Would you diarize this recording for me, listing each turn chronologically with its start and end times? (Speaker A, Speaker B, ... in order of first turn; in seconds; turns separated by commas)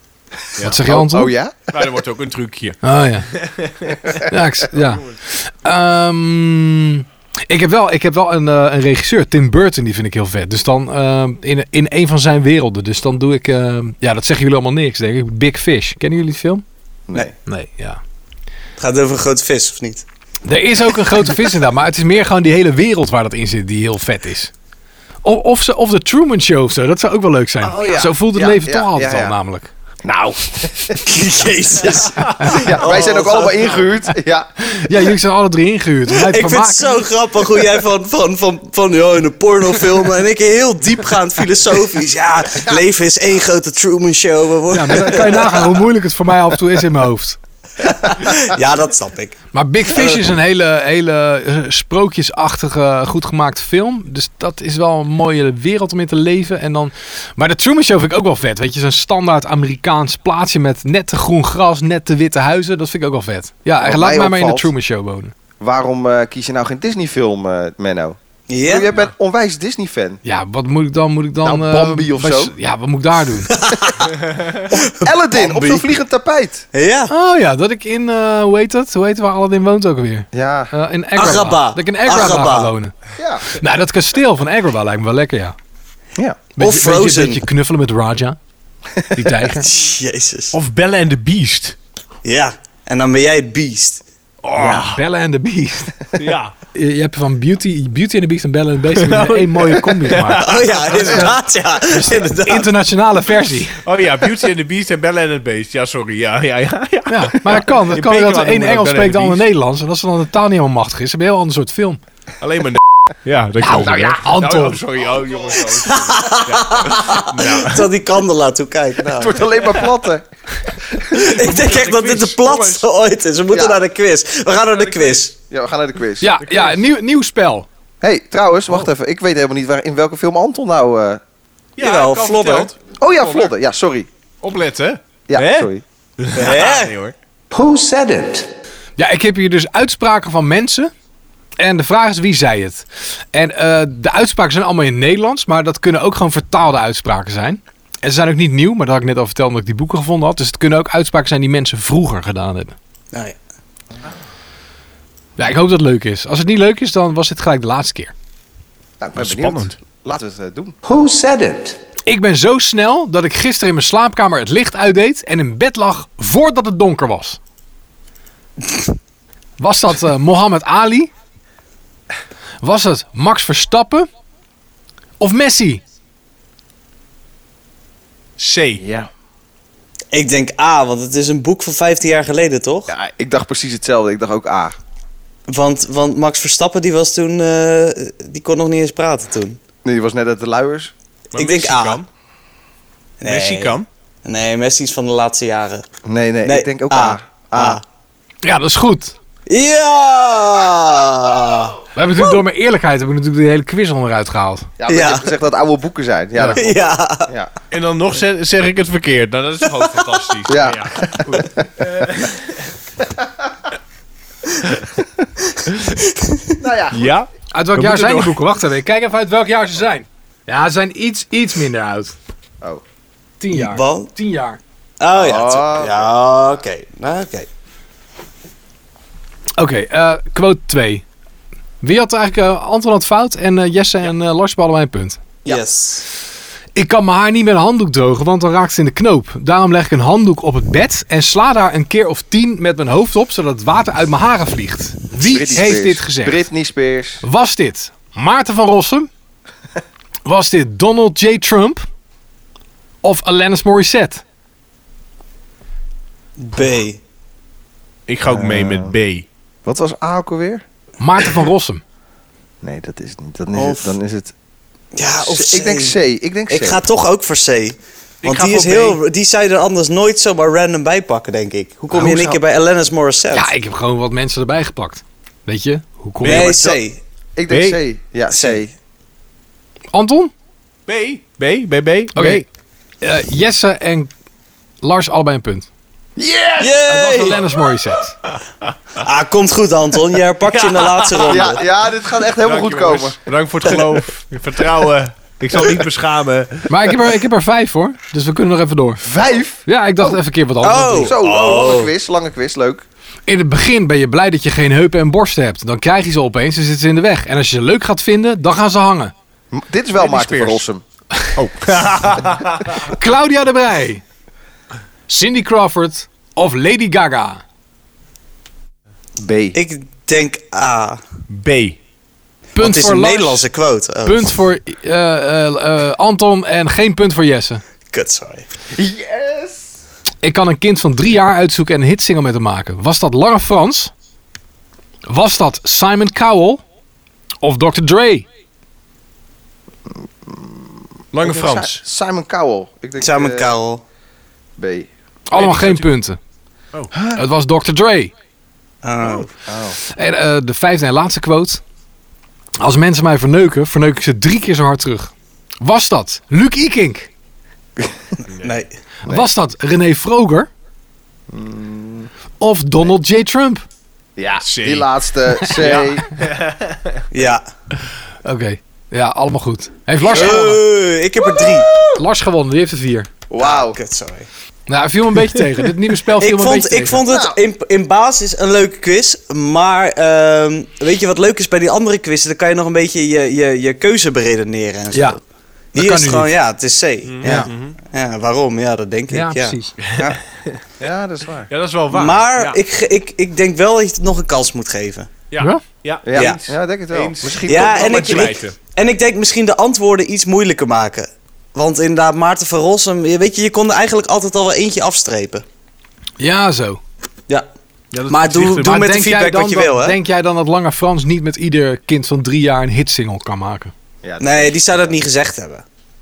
Speaker A: 0.6-1.3, Speaker B: 0.6-1.7, Speaker C: 1.7-5.2, Speaker A: 2.8-3.3, Speaker A: 4.3-16.6, Speaker A: 17.4-18.0, Speaker D: 18.8-20.1, Speaker A: 20.4-24.5, Speaker A: 25.2-29.7, Speaker B: 27.6-29.4, Speaker B: 30.0-31.2, Speaker D: 31.0-33.5, Speaker B: 31.8-34.8, Speaker C: 32.2-33.9, Speaker A: 34.7-37.1, Speaker D: 36.1-45.8, Speaker A: 44.7-47.4, Speaker D: 47.9-49.4, Speaker A: 49.5-65.3, Speaker B: 63.8-64.7, Speaker B: 65.6-70.2, Speaker D: 68.5-68.9, Speaker A: 70.2-73.5, Speaker B: 71.4-72.5, Speaker D: 73.5-74.2, Speaker D: 74.7-75.9, Speaker B: 74.7-76.7, Speaker D: 76.7-77.1, Speaker A: 77.1-82.9, Speaker B: 80.3-80.7, Speaker D: 81.2-82.7, Speaker B: 83.2-83.4, Speaker A: 83.5-85.5, Speaker A: 86.6-88.4, Speaker D: 86.6-87.4, Speaker A: 89.1-89.7, Speaker D: 89.5-90.5, Speaker C: 90.5-91.8, Speaker D: 92.2-94.0, Speaker C: 94.5-94.9, Speaker B: 94.5-95.0, Speaker A: 94.5-95.9, Speaker C: 96.2-96.5, Speaker A: 96.7-100.5, Speaker C: 99.0-101.4, Speaker D: 100.3-102.7, Speaker A: 102.3-103.8, Speaker C: 103.8-109.4, Speaker A: 107.1-112.0, Speaker C: 112.4-117.9, Speaker A: 113.6-114.8, Speaker D: 115.9-119.4, Speaker B: 119.1-120.3, Speaker D: 121.1-125.3, Speaker C: 121.2-122.9, Speaker B: 123.5-123.8, Speaker C: 124.7-125.3, Speaker B: 125.5-126.3, Speaker A: 126.2-127.7, Speaker C: 126.4-126.8, Speaker B: 128.0-131.2, Speaker C: 131.8-133.5, Speaker D: 131.8-132.7, Speaker B: 133.0-134.1, Speaker C: 134.4-137.2, Speaker B: 135.3-135.8, Speaker D: 136.3-136.9, Speaker E: 137.5-138.5, Speaker A: 139.0-140.9, Speaker A: 141.6-152.8, Speaker A: 155.4-158.1, Speaker B: 159.0-160.8, Speaker C: 159.2-159.8, Speaker E: 160.8-161.8, Speaker A: 162.1-167.4, Speaker A: 169.6-171.1, Speaker A: 172.6-174.1, Speaker A: 175.2-175.8, Speaker C: 178.4-178.8, Speaker B: 178.8-179.1, Speaker D: 180.1-182.9, Speaker B: 182.9-184.7, Speaker D: 185.5-189.6, Speaker B: 189.8-190.9, Speaker C: 191.3-192.1, Speaker D: 191.4-192.0, Speaker D: 193.2-195.9, Speaker C: 193.2-193.9, Speaker B: 196.1-197.8, Speaker D: 196.4-197.8, Speaker A: 198.4-199.2, Speaker D: 199.5-202.4, Speaker A: 201.9-204.7, Speaker B: 204.8-207.5, Speaker D: 204.9-205.3, Speaker D: 206.6-207.3, Speaker C: 207.7-212.7, Speaker B: 210.5-211.7, Speaker D: 215.9-216.6, Speaker B: 216.6-217.1, Speaker C: 216.9-218.4, Speaker A: 217.5-222.2, Speaker A: 223.4-224.6, Speaker D: 223.5-224.1, Speaker D: 225.0-227.5, Speaker B: 225.1-226.1, Speaker A: 229.6-231.0, Speaker A: 231.8-235.6, Speaker D: 235.4-236.1, Speaker A: 236.8-246.5, Speaker B: 245.2-247.2, Speaker A: 247.2-249.1, Speaker A: 250.3-251.9, Speaker A: 253.0-254.2, Speaker D: 256.4-257.0, Speaker C: 258.1-259.3, Speaker B: 258.3-258.9, Speaker B: 259.6-260.6, Speaker A: 261.0-261.8, Speaker B: 262.6-264.3, Speaker D: 263.6-264.0, Speaker D: 264.9-266.0, Speaker B: 265.2-266.8, Speaker D: 266.5-273.5, Speaker C: 268.2-269.0, Speaker B: 271.9-272.4, Speaker A: 273.3-276.5, Speaker D: 276.2-277.0, Speaker B: 276.2-276.8, Speaker B: 277.4-278.8, Speaker C: 277.5-277.8, Speaker D: 278.3-278.6, Speaker A: 279.9-280.3, Speaker C: 280.9-282.5, Speaker A: 282.1-282.4, Speaker A: 283.0-284.1, Speaker A: 284.8-285.7, Speaker B: 286.2-287.4, Speaker D: 286.6-287.4, Speaker A: 286.9-288.2, Speaker D: 289.0-291.6, Speaker C: 290.5-291.5, Speaker B: 291.2-293.2, Speaker C: 292.4-296.9, Speaker A: 296.7-299.1, Speaker B: 299.0-300.2, Speaker A: 299.7-301.1, Speaker D: 300.6-301.9, Speaker B: 300.9-302.9, Speaker A: 303.3-309.1, Speaker B: 309.5-310.8, Speaker C: 310.0-310.6, Speaker C: 311.4-312.8, Speaker A: 312.8-314.0, Speaker A: 315.1-317.4, Speaker B: 319.2-319.6, Speaker D: 319.5-321.0, Speaker C: 321.3-321.8, Speaker A: 322.6-323.5, Speaker D: 322.6-324.3, Speaker A: 324.1-327.6, Speaker D: 327.9-328.5, Speaker B: 328.7-329.7, Speaker A: 330.2-333.9, Speaker A: 335.1-336.6, Speaker A: 337.4-338.3, Speaker B: 340.2-343.6, Speaker C: 341.1-341.8, Speaker D: 343.0-343.8, Speaker B: 344.6-344.9, Speaker A: 345.3-346.2, Speaker C: 345.3-345.9, Speaker B: 346.9-347.2, Speaker A: 347.1-348.1, Speaker D: 348.8-349.3, Speaker B: 349.5-349.8, Speaker A: 349.8-351.6, Speaker A: 352.6-357.1, Speaker C: 358.3-358.6, Speaker D: 358.4-358.7, Speaker A: 359.1-360.5, Speaker B: 361.3-362.1, Speaker A: 362.4-363.6, Speaker B: 364.2-366.1, Speaker C: 364.4-364.9, Speaker C: 365.6-367.1, Speaker D: 367.1-367.4, Speaker A: 368.2-370.6, Speaker B: 370.1-370.6, Speaker D: 370.1-371.9, Speaker A: 371.9-373.1, Speaker B: 373.3-373.8, Speaker D: 373.4-374.3, Speaker A: 374.7-377.1, Speaker D: 376.2-385.2, Speaker B: 377.0-377.4, Speaker A: 384.9-385.2, Speaker D: 385.7-390.2, Speaker A: 385.8-386.3, Speaker C: 387.1-387.8, Speaker A: 389.1-389.8, Speaker C: 389.8-390.6, Speaker B: 390.8-391.5, Speaker C: 391.5-392.6, Speaker D: 391.9-395.1, Speaker C: 395.3-398.6, Speaker B: 396.1-398.4, Speaker D: 397.5-405.4, Speaker A: 406.2-406.8, Speaker C: 407.9-408.8, Speaker D: 408.1-410.0, Speaker A: 408.5-413.7, Speaker B: 414.0-415.0, Speaker D: 414.2-415.6